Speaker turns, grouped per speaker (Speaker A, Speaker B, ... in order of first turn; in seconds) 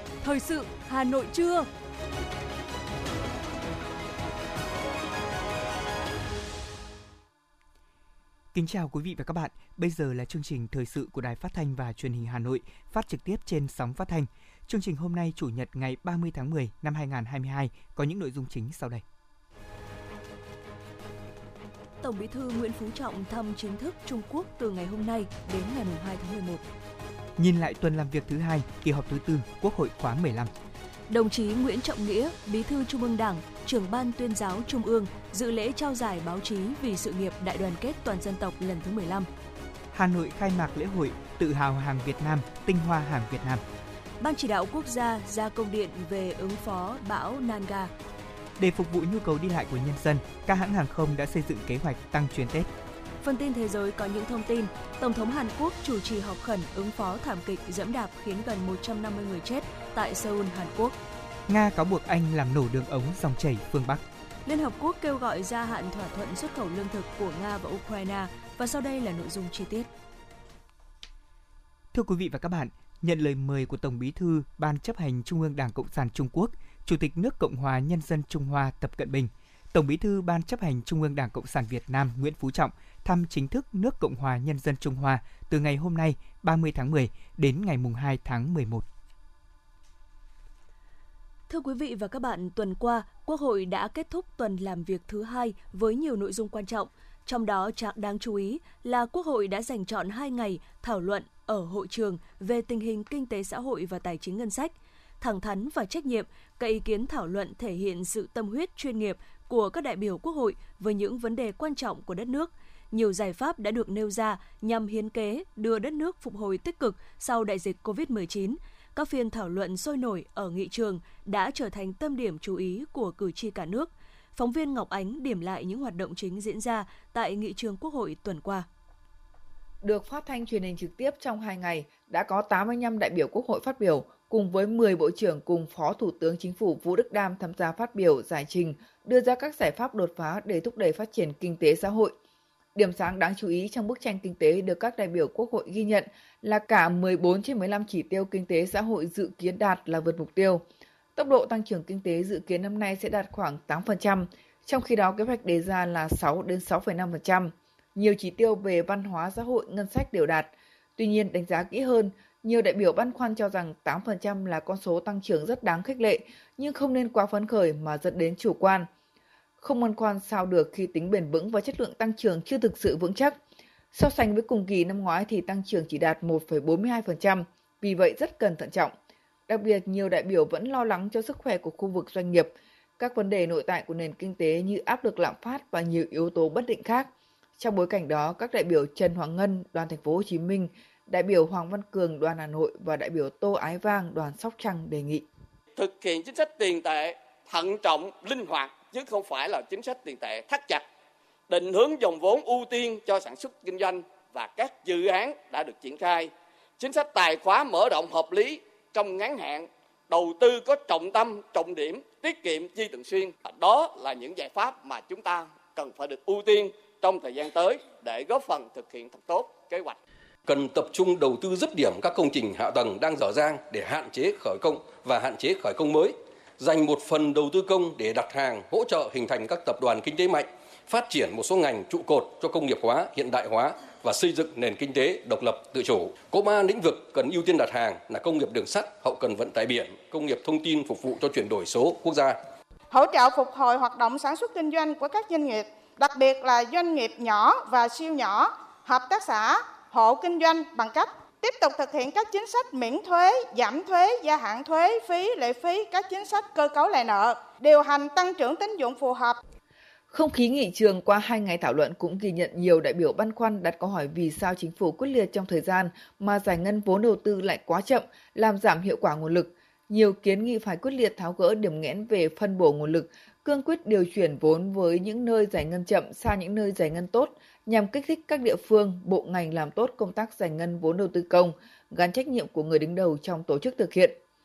Speaker A: 0.2-1.7, 22.0-26.6, 31.1-39.3, 44.2-47.9, 53.2-61.0, 64.5-69.9, 91.5-128.7
Speaker B: 8.5-19.0, 27.4-30.5, 39.9-43.6, 48.6-52.7, 61.5-64.0, 71.9-88.8
Speaker C: 129.8-142.1, 142.8-150.6, 151.2-168.9, 169.6-173.4, 173.9-178.9, 179.5-195.2, 260.1-284.2
Speaker D: 195.8-200.9, 201.5-220.0
Speaker E: 220.5-242.4
Speaker F: 242.9-259.4